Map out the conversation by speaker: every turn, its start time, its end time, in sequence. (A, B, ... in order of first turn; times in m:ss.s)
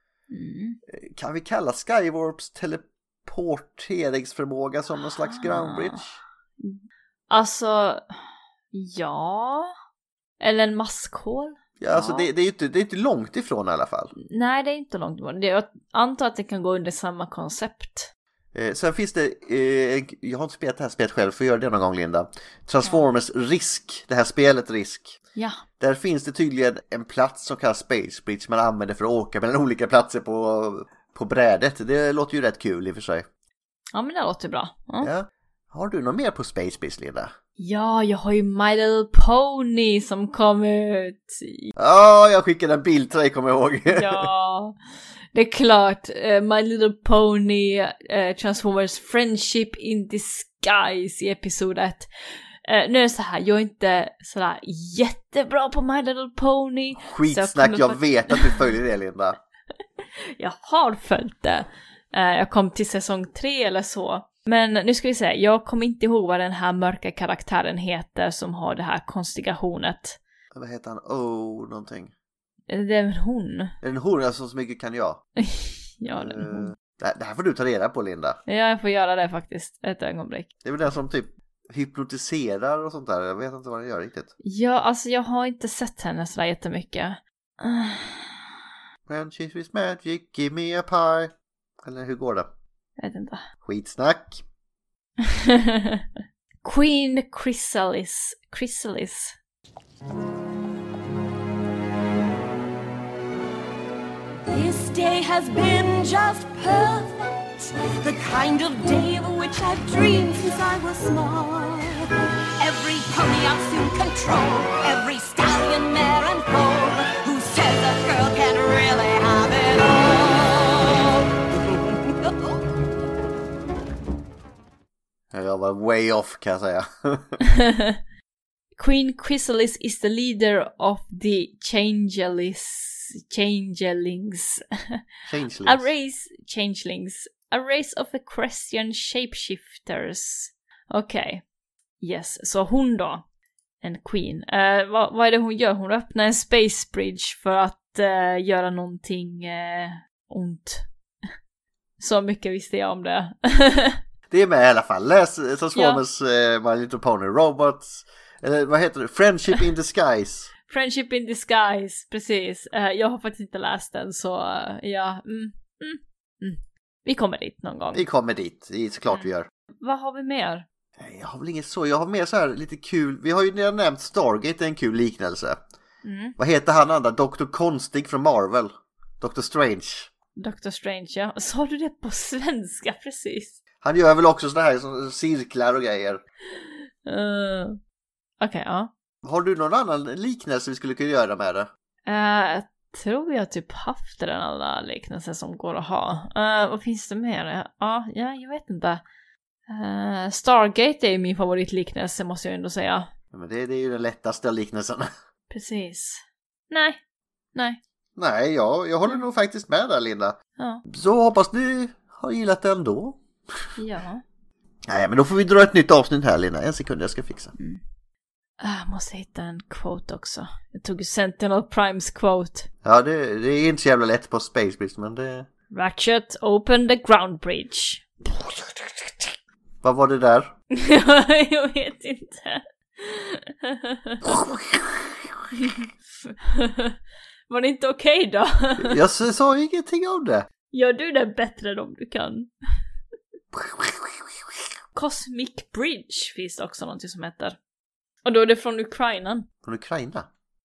0:00.3-0:00.8 A
0:00.9-0:06.2 B
0:05.0-0:06.0 A
0:06.6-0:08.0 A
0:08.7-0:09.7 A
0:10.4-0:12.3 A
0:11.8-0:14.1 B
0:14.2-0:18.1 A
0:18.5-0:25.2 B
0:25.4-0:25.6 A
0:25.8-0:33.3 B
0:33.9-0:35.1 A
0:35.0-0:37.3 B
0:37.6-0:41.7 A
0:41.8-0:44.3 B
0:43.9-0:44.8 A
0:45.3-0:52.1 A
0:52.6-0:58.7 A
0:57.0-0:59.4 B
1:00.4-1:10.2 A
1:10.5-1:12.1 B
1:12.7-1:13.7 A
1:13.8-1:15.2 B
1:15.4-1:16.7 A
1:16.2-1:18.4 B
1:18.5-1:20.5 A
1:20.6-1:24.3 B
1:24.4-1:28.4 A
1:29.1-1:32.5 B
1:33.0-1:33.4 A
1:33.6-1:34.4 B
1:35.3-1:36.0 A
1:36.6-1:39.4 A
1:44.5-2:01.2 C
2:05.3-2:07.4 B
2:07.4-2:08.0 A
2:08.8-2:15.0 A
2:15.3-2:15.9 B
2:15.6-2:21.4 A
2:22.0-2:23.2 A
2:23.8-2:30.8 A
2:32.0-2:34.0 A
2:34.3-2:40.5 B
2:35.7-2:36.0 A
2:40.7-2:48.0 A
2:47.9-2:49.5 B
2:49.8-2:50.6 A
2:51.0-2:55.6 B
2:56.0-2:56.4 A
2:56.4-3:00.1 B
3:00.4-3:03.6 A
3:03.8-3:06.2 B
3:07.0-3:07.8 A
3:08.4-3:08.9 A
3:09.2-3:11.7 B
3:12.1-3:19.0 A
3:19.7-3:23.1 A
3:23.3-3:25.1 B
3:25.5-3:27.0 A
3:28.2-3:30.4 B
3:30.6-3:30.8 A
3:30.9-3:33.2 B
3:33.8-3:34.2 A
3:34.9-3:37.5 B
3:38.6-3:42.7 A
3:42.8-3:45.5 B
3:45.7-3:49.3 A
3:49.8-3:50.5 B
3:50.7-3:54.3 A
3:54.2-3:55.2 B
3:55.5-3:57.0 A
3:57.5-3:59.0 A
3:58.8-4:00.5 B
4:00.7-4:02.5 A
4:03.5-4:04.4 B
4:04.9-4:07.6 A
4:08.2-4:09.5 A
4:09.6-4:10.3 B